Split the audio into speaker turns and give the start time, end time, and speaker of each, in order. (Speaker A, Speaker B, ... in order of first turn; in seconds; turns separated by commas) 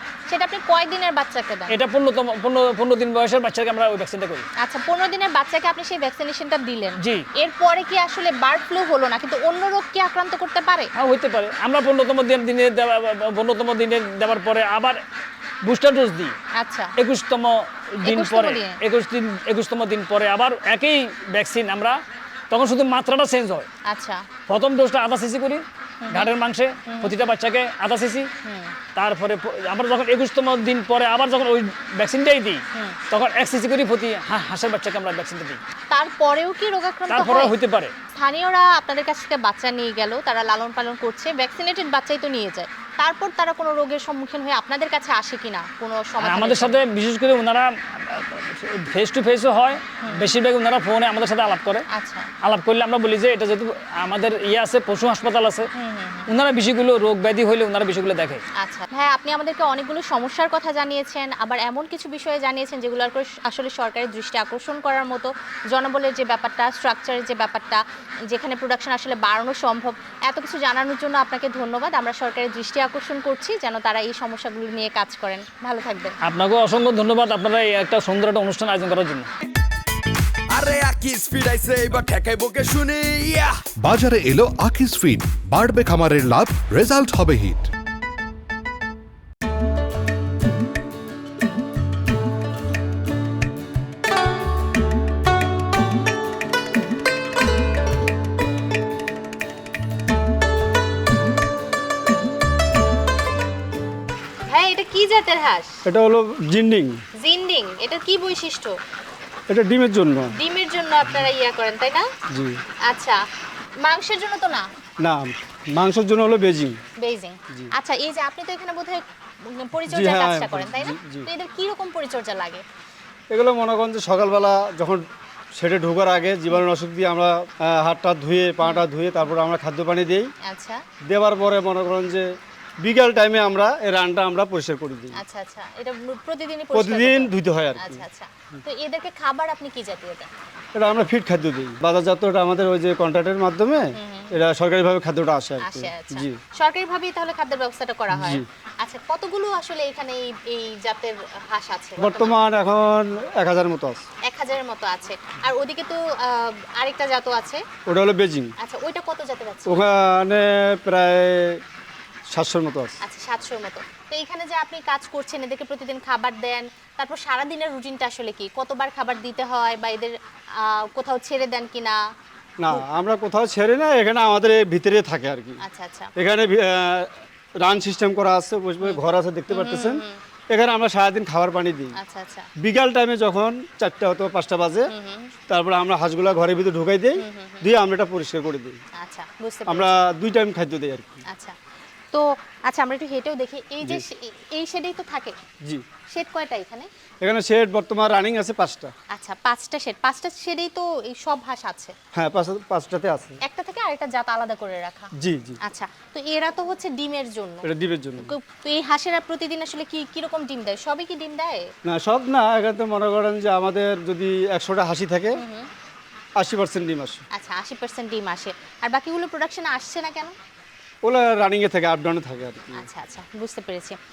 Speaker A: 0.3-1.8, Speaker B: 1.7-4.5, Speaker A: 4.6-10.9, Speaker B: 11.0-15.0, Speaker B: 15.7-16.4, Speaker A: 16.6-16.9, Speaker B: 17.0-22.0, Speaker A: 18.1-18.8, Speaker B: 22.5-23.7, Speaker A: 23.9-24.3, Speaker B: 24.5-28.3, Speaker A: 26.0-26.3, Speaker A: 26.9-27.1, Speaker A: 28.4-28.8, Speaker B: 28.9-35.6, Speaker A: 35.9-37.5, Speaker B: 37.1-37.9, Speaker A: 38.2-46.8, Speaker B: 46.2-51.8, Speaker A: 50.0-50.3, Speaker A: 51.9-52.3, Speaker B: 52.4-55.7, Speaker A: 55.8-56.3, Speaker B: 56.3-58.4, Speaker A: 58.6-76.2, Speaker B: 76.2-79.3, Speaker C: 80.5-83.6, Speaker D: 83.8-87.7, Speaker A: 104.5-105.8, Speaker E: 105.9-107.0, Speaker A: 107.2-108.8, Speaker E: 109.5-110.3, Speaker A: 110.3-112.1, Speaker E: 112.3-112.6, Speaker A: 112.9-113.2, Speaker A: 113.8-114.7, Speaker E: 115.0-116.8, Speaker A: 117.0-122.6, Speaker E: 119.9-121.3, Speaker E: 123.3-125.0, Speaker E: 125.6-130.3, Speaker A: 130.4-130.8, Speaker E: 131.1-132.3, Speaker E: 132.8-135.2, Speaker A: 135.2-140.3, Speaker E: 136.7-138.0, Speaker E: 140.8-146.4, Speaker A: 144.0-144.3, Speaker A: 145.6-152.4, Speaker E: 148.1-148.4, Speaker E: 152.0-154.0, Speaker A: 154.3-157.6, Speaker E: 157.9-158.5, Speaker A: 158.6-159.9, Speaker E: 159.7-161.6, Speaker E: 162.3-163.0, Speaker A: 163.0-172.0, Speaker E: 172.6-175.6, Speaker A: 175.6-176.1, Speaker E: 176.2-181.9, Speaker A: 178.8-180.2, Speaker A: 182.0-182.5, Speaker E: 182.6-184.9, Speaker A: 184.9-185.3, Speaker E: 185.5-188.8, Speaker A: 187.2-187.7, Speaker A: 189.0-190.1, Speaker E: 189.7-191.2, Speaker A: 191.3-191.6, Speaker A: 192.1-195.4, Speaker A: 196.1-196.9, Speaker E: 197.2-198.9, Speaker A: 199.1-201.9, Speaker E: 202.2-203.4, Speaker A: 203.4-205.1, Speaker E: 205.2-205.6, Speaker A: 205.7-207.7, Speaker E: 207.6-208.3, Speaker A: 208.2-211.7, Speaker E: 211.9-215.4, Speaker A: 215.4-215.7, Speaker E: 216.4-217.2, Speaker A: 217.3-220.3, Speaker E: 221.0-222.8, Speaker A: 222.8-224.0